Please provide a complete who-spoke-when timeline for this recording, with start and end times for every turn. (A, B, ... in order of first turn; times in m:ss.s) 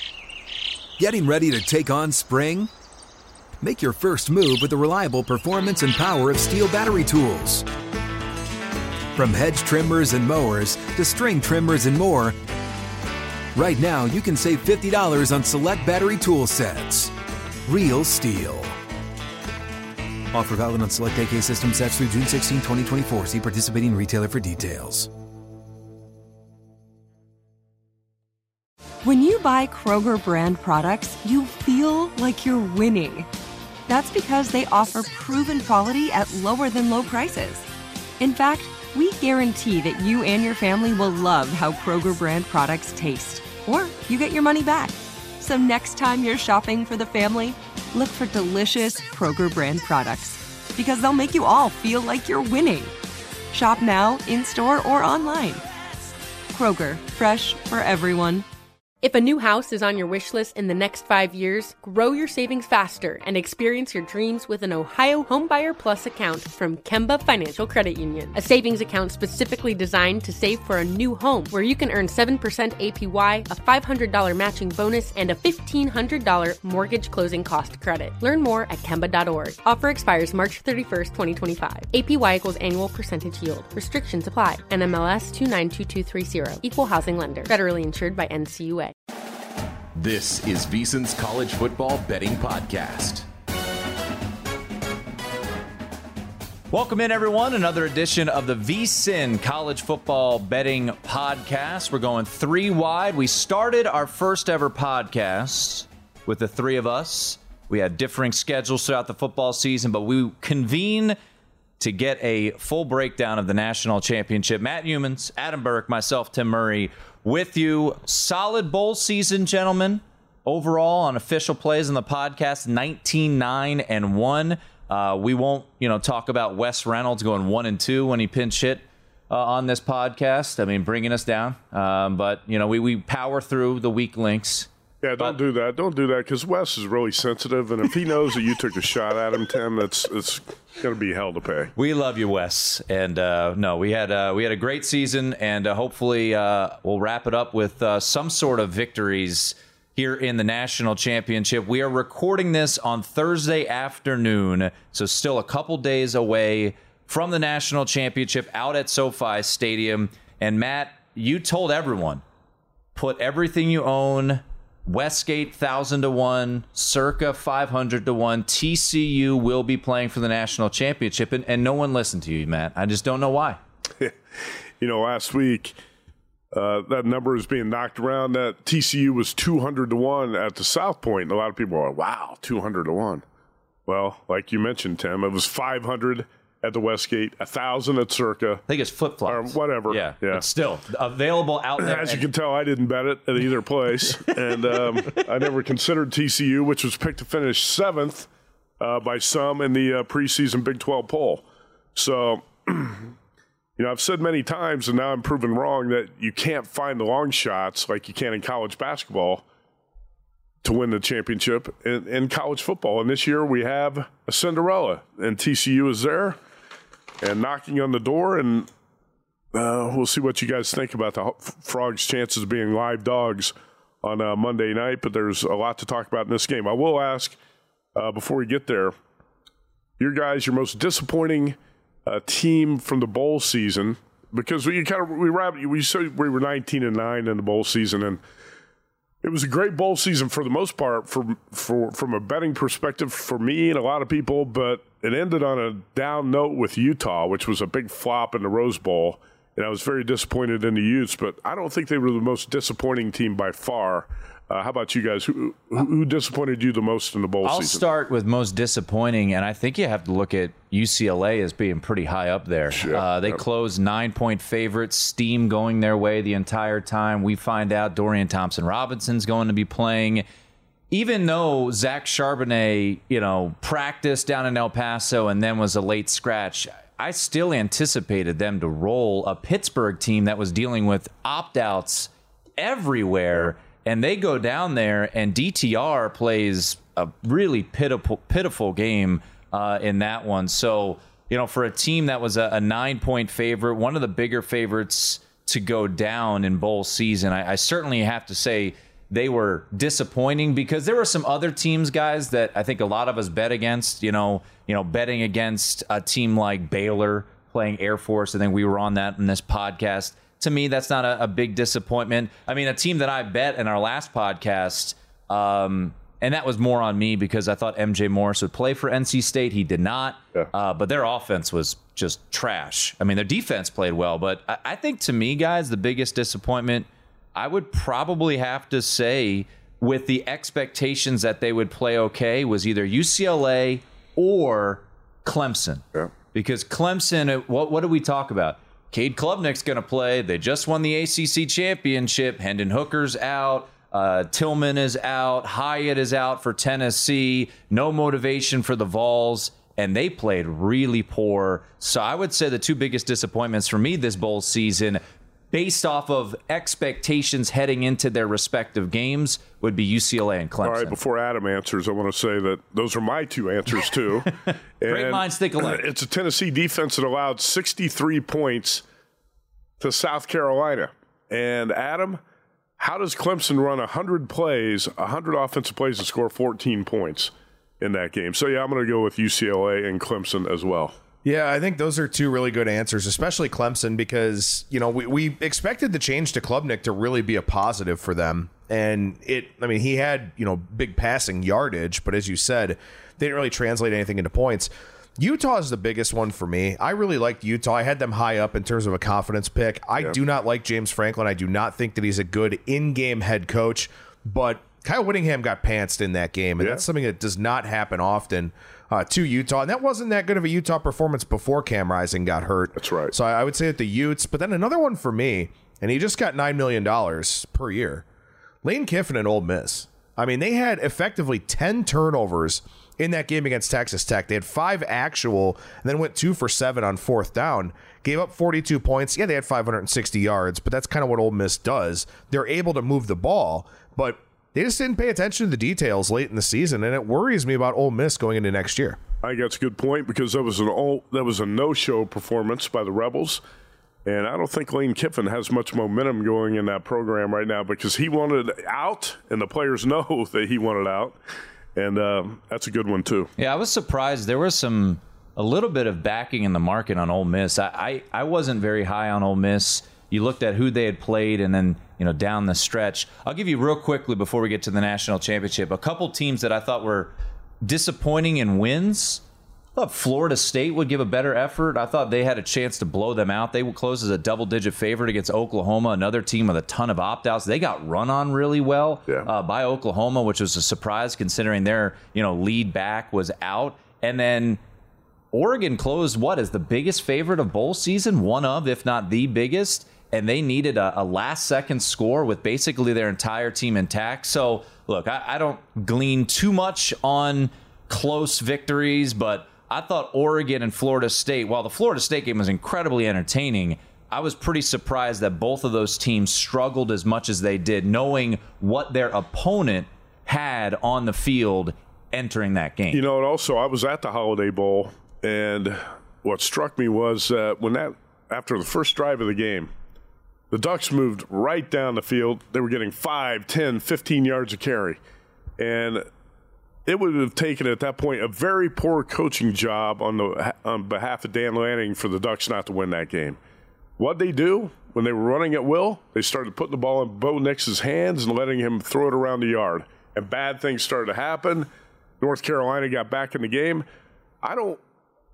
0:01.0-0:02.7 A
0:03.6-0:07.7 A
0:09.1-0:12.4 A
0:13.5-0:17.1 A
0:17.7-0:18.8 A
0:20.3-0:25.1 A
0:29.0-0:33.3 B
0:33.9-0:37.7 B
0:38.2-0:52.9 B
0:53.5-0:55.6 B
0:56.5-0:58.4 B
0:59.0-1:28.9 C
1:30.0-1:33.2 D
1:36.7-1:51.2 E
1:51.8-2:14.7 E
2:15.0-2:21.7 F
2:21.8-2:42.2 E
2:42.9-2:53.6 E
2:54.8-2:55.8 F
2:56.5-3:03.2 F
3:03.9-3:08.6 F
3:08.7-3:12.2 E
3:09.2-3:10.4 F
3:11.8-3:18.3 F
3:18.8-3:21.4 F
3:22.0-3:23.1 F
3:23.8-3:29.4 F
3:30.6-3:36.4 F
3:37.2-3:38.7 F
3:39.5-3:47.4 F
3:47.9-3:48.9 F
3:50.0-3:58.2 F
3:59.2-4:17.8 F
4:17.4-4:30.2 E
4:22.8-4:23.4 F
4:30.9-6:01.0 E
6:00.6-6:08.8 F
6:04.5-6:05.8 E
6:09.8-6:12.2 F
6:12.8-6:20.9 F
6:21.2-6:58.0 G
6:52.8-6:53.1 F
6:58.6-7:19.0 G
7:19.2-7:23.4 F
7:24.1-7:31.2 F
7:31.8-7:33.3 F
7:33.4-7:49.2 E
7:49.8-8:04.6 E
8:05.3-8:33.0 E
8:32.9-8:39.7 F
8:40.5-8:45.0 F
8:45.6-8:46.0 F
8:46.9-8:53.4 F
8:54.0-9:01.7 F
9:02.2-9:03.8 F
9:04.4-9:04.8 F